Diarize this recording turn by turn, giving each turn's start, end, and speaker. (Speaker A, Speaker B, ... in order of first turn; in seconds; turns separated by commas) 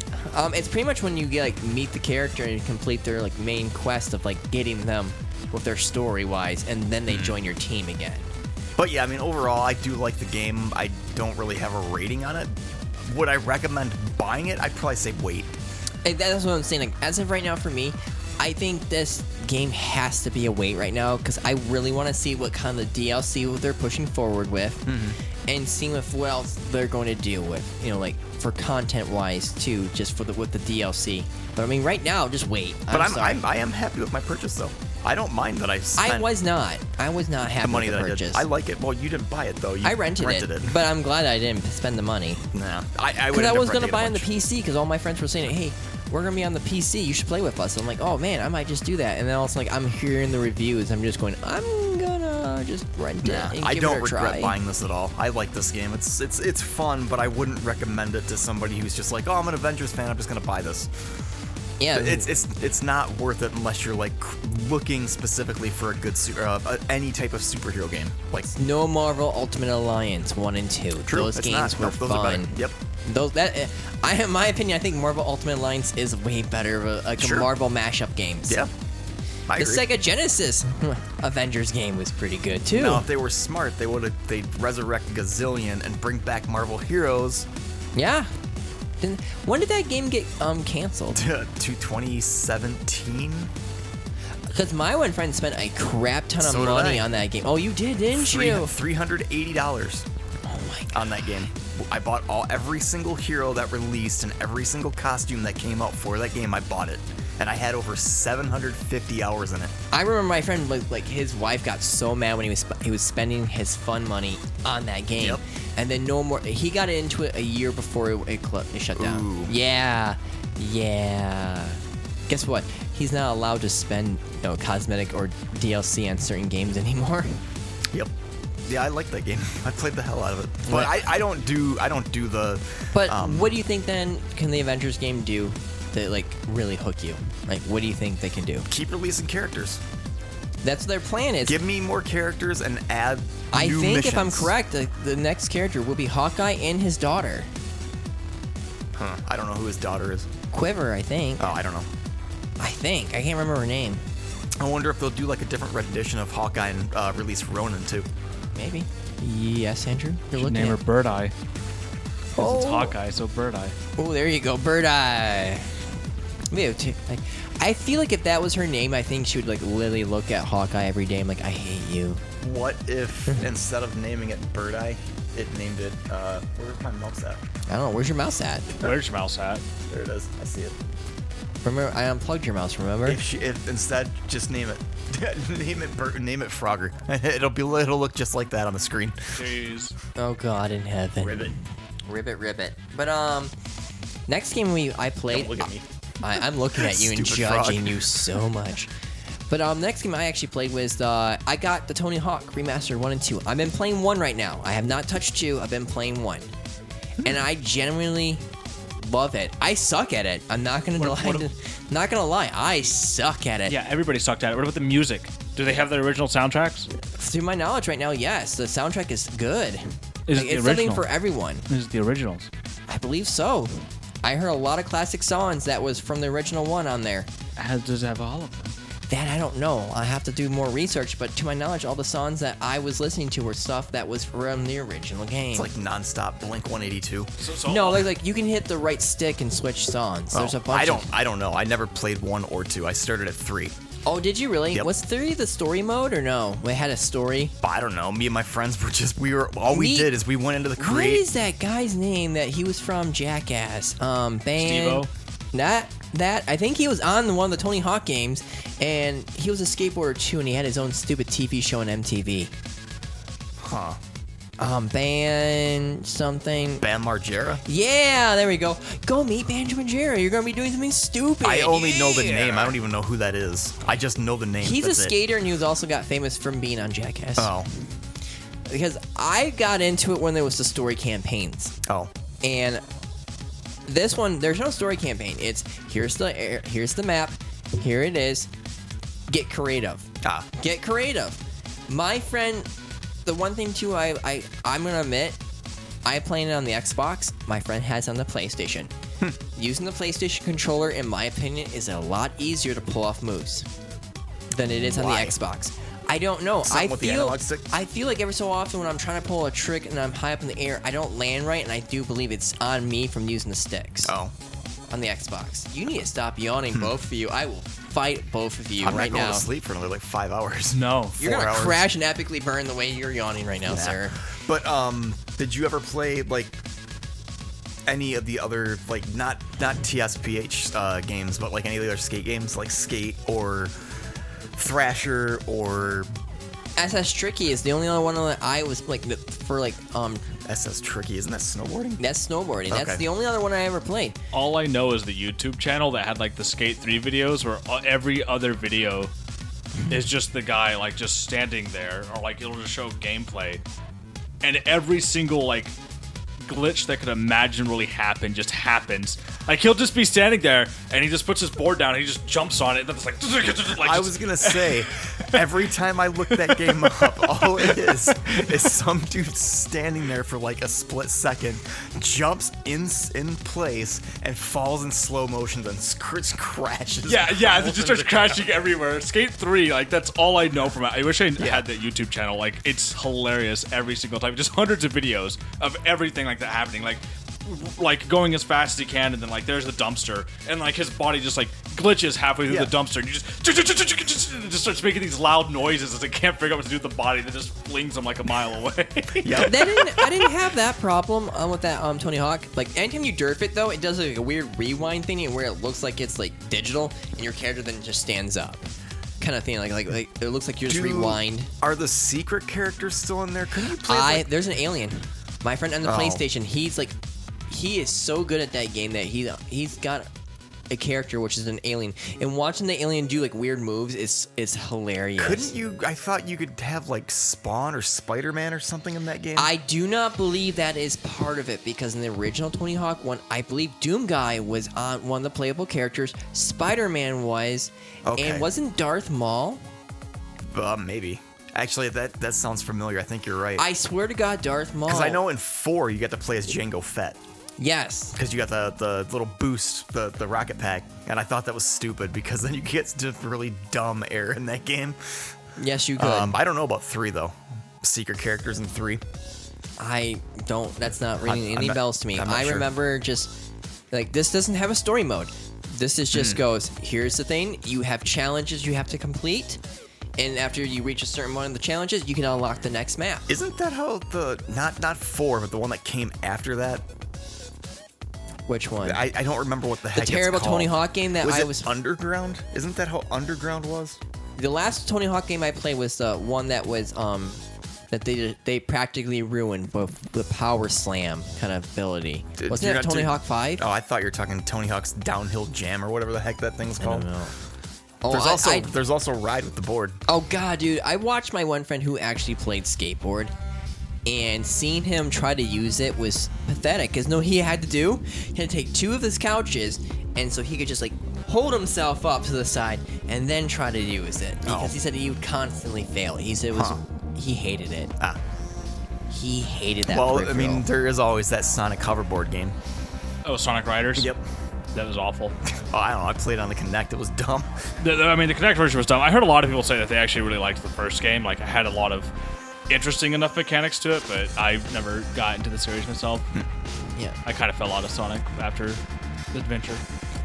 Speaker A: 0.2-8.3, Speaker B: 7.1-7.3, Speaker B: 8.8-15.5, Speaker A: 16.0-24.9, Speaker B: 24.9-25.2, Speaker A: 25.5-33.4, Speaker B: 32.9-36.3, Speaker A: 36.0-38.5, Speaker B: 37.6-40.8, Speaker A: 39.8-42.5, Speaker B: 42.5-44.3, Speaker A: 43.3-54.5, Speaker B: 53.2-60.9, Speaker A: 61.8-62.3, Speaker B: 61.9-68.5, Speaker A: 68.5-78.6, Speaker B: 71.0-72.7, Speaker B: 77.2-77.5, Speaker B: 79.5-79.8, Speaker A: 79.5-83.0, Speaker B: 82.7-87.5, Speaker A: 87.9-88.3, Speaker A: 89.0-91.2, Speaker B: 91.1-93.5, Speaker A: 94.5-98.7, Speaker B: 96.4-97.1, Speaker B: 98.1-100.0, Speaker A: 100.5-101.1, Speaker B: 100.9-109.7, Speaker A: 109.9-127.4, Speaker B: 118.9-119.5, Speaker B: 128.6-133.6, Speaker A: 130.7-130.9, Speaker A: 132.9-138.7, Speaker B: 138.7-139.8, Speaker A: 140.6-141.6, Speaker B: 141.4-144.5, Speaker A: 143.5-147.5, Speaker B: 148.9-150.3, Speaker A: 150.5-151.4, Speaker B: 151.4-151.9, Speaker A: 152.6-154.0, Speaker B: 154.6-158.1, Speaker A: 158.5-160.8, Speaker C: 160.3-161.3, Speaker A: 162.3-162.9, Speaker C: 162.4-163.8, Speaker A: 164.0-165.7, Speaker A: 166.5-172.2, Speaker B: 172.4-177.4, Speaker A: 177.7-178.7, Speaker C: 178.8-179.6, Speaker B: 179.9-180.8, Speaker A: 181.6-183.2, Speaker B: 183.0-189.3, Speaker C: 189.3-189.9, Speaker A: 190.2-191.5, Speaker B: 191.2-191.5, Speaker A: 192.1-193.5, Speaker A: 194.3-198.9, Speaker B: 195.3-195.8, Speaker B: 196.7-198.1, Speaker A: 199.5-206.5, Speaker A: 207.2-208.4, Speaker A: 209.0-213.8, Speaker C: 211.0-211.5, Speaker C: 213.7-216.9, Speaker A: 217.1-221.6, Speaker C: 220.3-221.1, Speaker C: 221.7-222.5, Speaker A: 222.9-227.3, Speaker C: 227.6-228.7, Speaker A: 229.1-235.7, Speaker B: 235.5-237.3, Speaker C: 237.4-238.1, Speaker A: 237.7-241.1, Speaker B: 240.3-243.7, Speaker A: 244.1-247.5, Speaker B: 247.6-251.2, Speaker A: 249.7-250.1, Speaker A: 250.8-262.5, Speaker C: 254.6-255.1, Speaker B: 263.6-264.0, Speaker A: 264.6-266.9, Speaker B: 266.8-267.6, Speaker A: 267.6-272.6, Speaker B: 271.4-275.1, Speaker A: 274.6-277.5, Speaker B: 277.4-277.7, Speaker A: 278.7-281.7, Speaker B: 281.9-282.1, Speaker A: 282.4-282.8, Speaker A: 283.9-288.5, Speaker A: 289.3-292.7, Speaker B: 290.2-290.5, Speaker A: 293.2-295.4, Speaker A: 296.0-298.9, Speaker A: 299.5-303.7, Speaker A: 304.5-314.1, Speaker B: 304.8-305.3, Speaker B: 306.6-307.7, Speaker B: 314.0-314.3, Speaker A: 314.9-319.5, Speaker B: 318.8-321.8, Speaker C: 320.7-321.2, Speaker A: 321.2-324.2, Speaker B: 323.6-326.6, Speaker B: 327.9-333.7, Speaker B: 334.5-336.1, Speaker A: 336.8-340.2, Speaker B: 340.4-342.0, Speaker A: 342.0-344.1, Speaker B: 342.7-343.0, Speaker C: 344.3-349.1, Speaker C: 349.9-353.6, Speaker C: 354.4-355.7, Speaker C: 356.4-365.4, Speaker B: 363.8-378.5, Speaker C: 366.3-368.5, Speaker C: 377.0-400.1, Speaker B: 381.4-381.6, Speaker B: 392.5-392.7, Speaker B: 399.2-399.7, Speaker A: 399.4-408.7, Speaker A: 409.2-411.5, Speaker B: 410.6-414.3, Speaker A: 413.8-416.9, Speaker B: 415.8-416.2, Speaker A: 417.5-420.1, Speaker A: 420.7-425.5, Speaker B: 425.2-429.5, Speaker A: 429.4-439.6, Speaker B: 438.0-438.5, Speaker B: 440.5-443.6, Speaker A: 443.6-445.2, Speaker B: 444.9-447.2, Speaker A: 447.6-448.1, Speaker B: 448.1-455.0, Speaker A: 455.6-456.4, Speaker B: 456.0-459.0, Speaker A: 459.8-463.3, Speaker B: 461.2-462.7, Speaker A: 463.9-469.6, Speaker B: 466.1-466.4, Speaker A: 470.2-473.3, Speaker B: 473.3-476.8, Speaker A: 478.5-479.1, Speaker B: 478.8-484.0, Speaker A: 479.9-481.7, Speaker A: 484.4-493.6, Speaker B: 492.4-497.1, Speaker A: 496.8-497.3, Speaker A: 498.0-498.7, Speaker B: 498.1-500.0, Speaker A: 500.1-503.3, Speaker A: 504.1-517.9, Speaker B: 514.4-514.8, Speaker B: 516.5-516.8, Speaker A: 519.1-520.6, Speaker B: 519.9-522.5, Speaker C: 523.2-524.1, Speaker B: 524.0-524.2, Speaker C: 524.7-525.4, Speaker B: 525.7-527.5, Speaker C: 527.8-532.1, Speaker C: 532.7-536.3, Speaker C: 537.2-538.8, Speaker C: 539.3-539.8